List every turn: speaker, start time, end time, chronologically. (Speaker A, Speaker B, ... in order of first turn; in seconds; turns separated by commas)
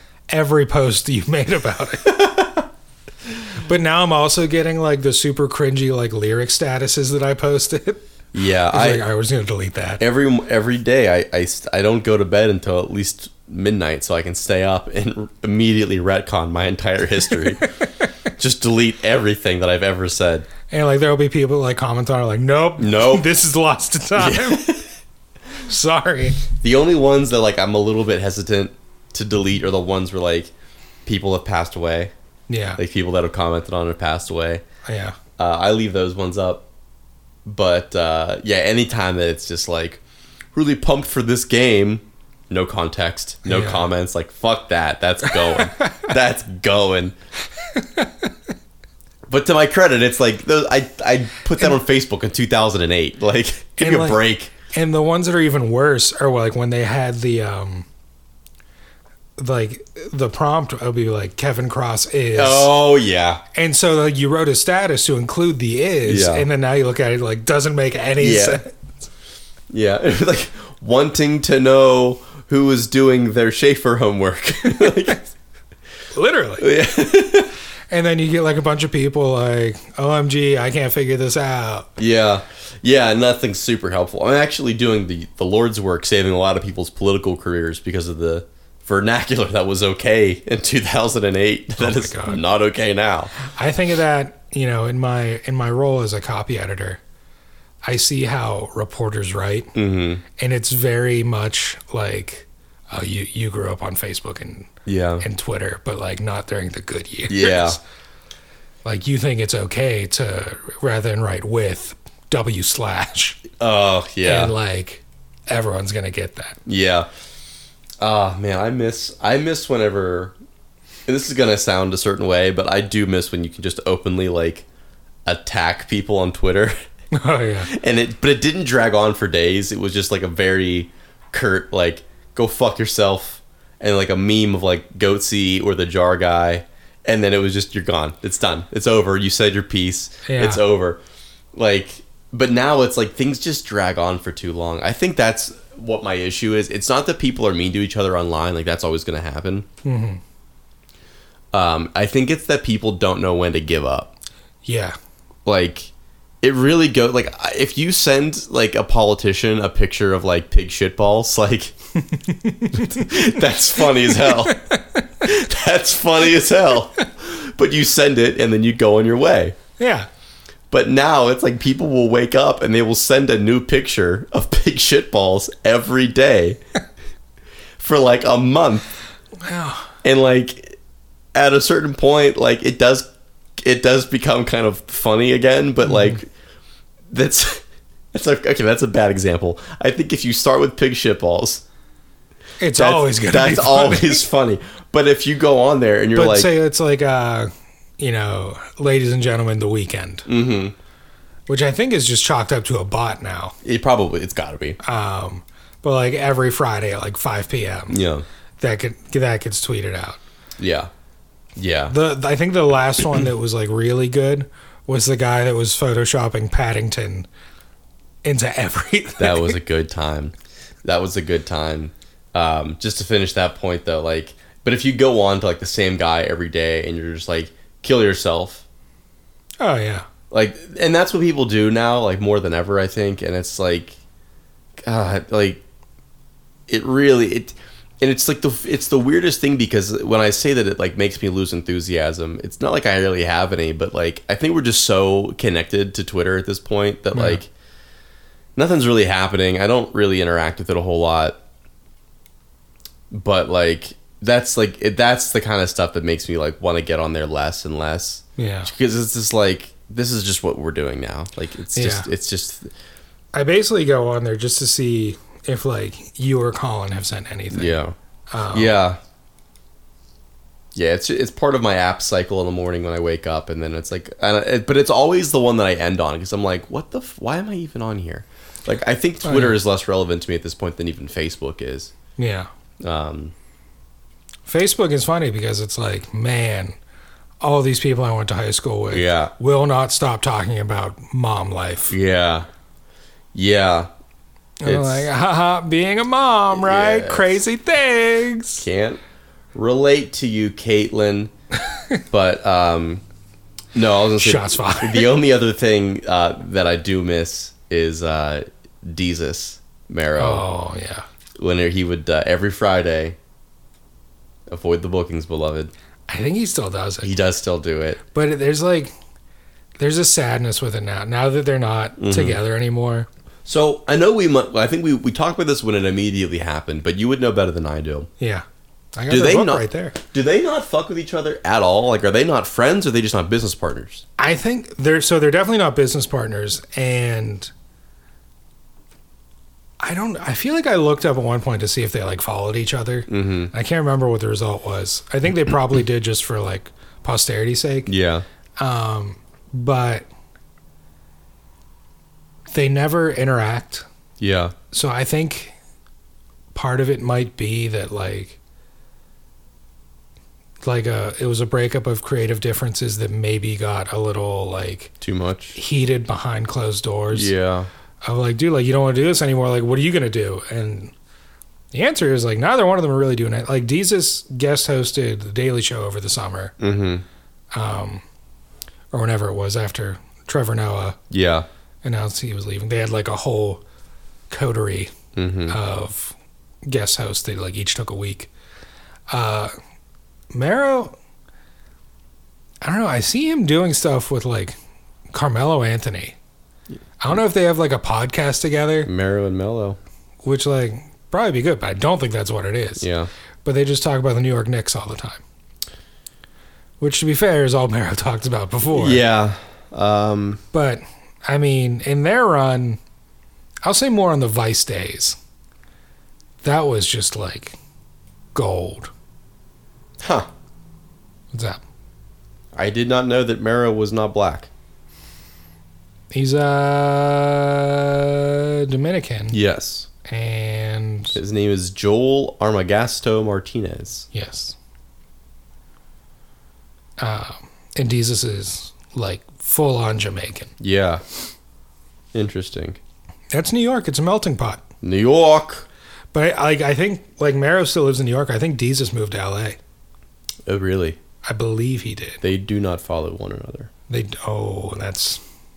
Speaker A: 0.3-2.2, Speaker B: 2.1-2.6, Speaker A: 3.6-8.0, Speaker B: 8.3-9.0, Speaker A: 8.7-10.0, Speaker B: 10.0-17.6, Speaker B: 18.4-20.5, Speaker A: 20.7-24.7, Speaker B: 22.8-23.3, Speaker B: 24.1-24.9, Speaker A: 25.6-26.4, Speaker B: 26.6-30.5, Speaker B: 31.1-32.1, Speaker A: 32.5-32.8, Speaker B: 32.8-34.6, Speaker A: 34.8-35.1, Speaker B: 35.4-36.6, Speaker B: 37.5-40.0, Speaker B: 40.5-47.1, Speaker A: 43.4-43.9, Speaker A: 47.8-48.2, Speaker B: 49.3-54.5, Speaker A: 53.8-54.2, Speaker A: 54.7-57.9, Speaker A: 59.4-62.7, Speaker B: 62.3-63.4, Speaker A: 63.5-68.7, Speaker B: 66.0-66.5, Speaker B: 68.2-68.6, Speaker B: 69.7-75.2, Speaker A: 76.1-76.7, Speaker B: 76.6-77.5, Speaker A: 77.9-81.9, Speaker B: 82.0-93.3, Speaker A: 91.8-92.4, Speaker A: 93.4-97.0, Speaker A: 97.8-99.7, Speaker B: 99.7-100.2, Speaker A: 100.4-104.7, Speaker B: 104.8-105.2, Speaker A: 105.2-107.8, Speaker B: 107.3-107.8, Speaker A: 108.8-113.4, Speaker B: 113.6-114.5, Speaker A: 114.2-116.6, Speaker B: 116.7-117.1, Speaker B: 118.0-120.3, Speaker B: 121.1-124.6, Speaker B: 125.2-126.8, Speaker A: 127.1-127.7, Speaker B: 127.7-141.0, Speaker A: 140.2-140.6, Speaker B: 141.5-149.7, Speaker A: 149.8-150.2, Speaker B: 151.5-154.1, Speaker A: 154.6-154.9, Speaker B: 155.4-155.9, Speaker B: 156.4-161.7, Speaker A: 162.1-163.1, Speaker B: 162.7-164.6, Speaker A: 164.2-165.0, Speaker B: 165.2-169.5, Speaker A: 169.8-170.1, Speaker B: 170.7-176.6, Speaker B: 177.8-178.8, Speaker A: 179.4-179.9, Speaker B: 180.0-180.8, Speaker B: 181.3-183.1, Speaker B: 183.6-186.3, Speaker A: 185.8-186.2, Speaker B: 187.1-191.6, Speaker A: 192.6-194.2, Speaker B: 192.7-196.5, Speaker A: 196.1-200.3, Speaker B: 200.2-200.7, Speaker A: 201.5-203.6, Speaker B: 203.6-204.8, Speaker A: 204.8-208.0, Speaker B: 207.9-208.2, Speaker A: 208.6-210.2, Speaker B: 210.6-210.9, Speaker B: 211.6-211.9, Speaker A: 211.9-217.3, Speaker A: 218.2-219.6, Speaker B: 219.2-228.6, Speaker A: 229.6-230.1, Speaker B: 230.3-234.0, Speaker B: 234.8-235.6, Speaker B: 236.7-247.5, Speaker A: 247.1-247.4, Speaker B: 248.5-251.4, Speaker B: 253.1-262.7, Speaker A: 258.4-258.7, Speaker A: 261.7-262.1, Speaker A: 263.3-267.8, Speaker B: 267.5-267.9, Speaker A: 268.3-268.8, Speaker B: 268.5-269.0, Speaker B: 270.7-281.9, Speaker A: 279.2-279.6, Speaker A: 282.2-282.5, Speaker B: 282.8-283.3, Speaker A: 284.4-286.8, Speaker A: 287.4-291.9, Speaker B: 288.9-289.3, Speaker B: 291.9-292.5, Speaker B: 293.3-293.9, Speaker A: 294.6-298.6, Speaker B: 294.6-295.1, Speaker B: 296.5-297.4, Speaker B: 298.6-299.0, Speaker B: 299.5-301.3, Speaker B: 302.1-303.0, Speaker B: 303.7-310.4, Speaker A: 304.2-305.1, Speaker A: 310.2-311.1, Speaker B: 311.4-313.2, Speaker B: 314.5-315.7, Speaker A: 316.1-317.1, Speaker B: 317.0-318.0, Speaker A: 318.1-318.9, Speaker A: 319.8-323.1, Speaker B: 322.0-322.4, Speaker B: 323.4-328.1, Speaker A: 328.2-328.4, Speaker A: 328.9-330.0, Speaker B: 329.1-334.0, Speaker A: 334.2-337.5, Speaker A: 339.8-347.9, Speaker B: 343.1-343.5, Speaker B: 347.9-348.2, Speaker A: 348.6-350.0, Speaker A: 352.5-353.9, Speaker B: 354.2-354.5, Speaker A: 354.7-355.5, Speaker A: 356.5-358.4, Speaker A: 360.6-364.9, Speaker B: 365.0-365.6, Speaker A: 365.5-367.3, Speaker B: 367.1-367.7, Speaker A: 368.0-370.9, Speaker A: 371.7-376.5, Speaker B: 376.6-377.0, Speaker A: 377.5-378.0, Speaker A: 378.9-381.0, Speaker B: 381.1-381.4, Speaker A: 381.8-383.6, Speaker A: 384.3-384.9, Speaker B: 385.1-385.6, Speaker A: 385.5-388.3, Speaker A: 389.1-389.5, Speaker A: 390.3-390.9, Speaker A: 392.6-394.5, Speaker A: 395.1-396.1, Speaker A: 397.0-398.9, Speaker B: 398.8-399.8, Speaker A: 400.2-402.9, Speaker B: 402.8-403.1, Speaker A: 403.4-405.2, Speaker A: 406.8-409.0, Speaker B: 408.7-410.4, Speaker A: 410.5-412.8, Speaker A: 413.6-415.1, Speaker A: 416.4-417.5, Speaker A: 418.3-418.9, Speaker B: 420.0-420.3, Speaker A: 421.3-421.6, Speaker B: 422.5-424.5, Speaker A: 426.1-429.4, Speaker B: 429.3-429.9, Speaker A: 430.0-431.1, Speaker B: 431.1-434.1, Speaker A: 434.1-434.5, Speaker A: 437.0-440.5, Speaker B: 440.6-441.0, Speaker B: 442.1-442.8, Speaker A: 443.3-444.6, Speaker B: 444.8-445.6, Speaker A: 446.1-449.6, Speaker B: 450.4-451.0, Speaker A: 451.2-452.2, Speaker B: 452.2-453.7, Speaker A: 453.9-455.2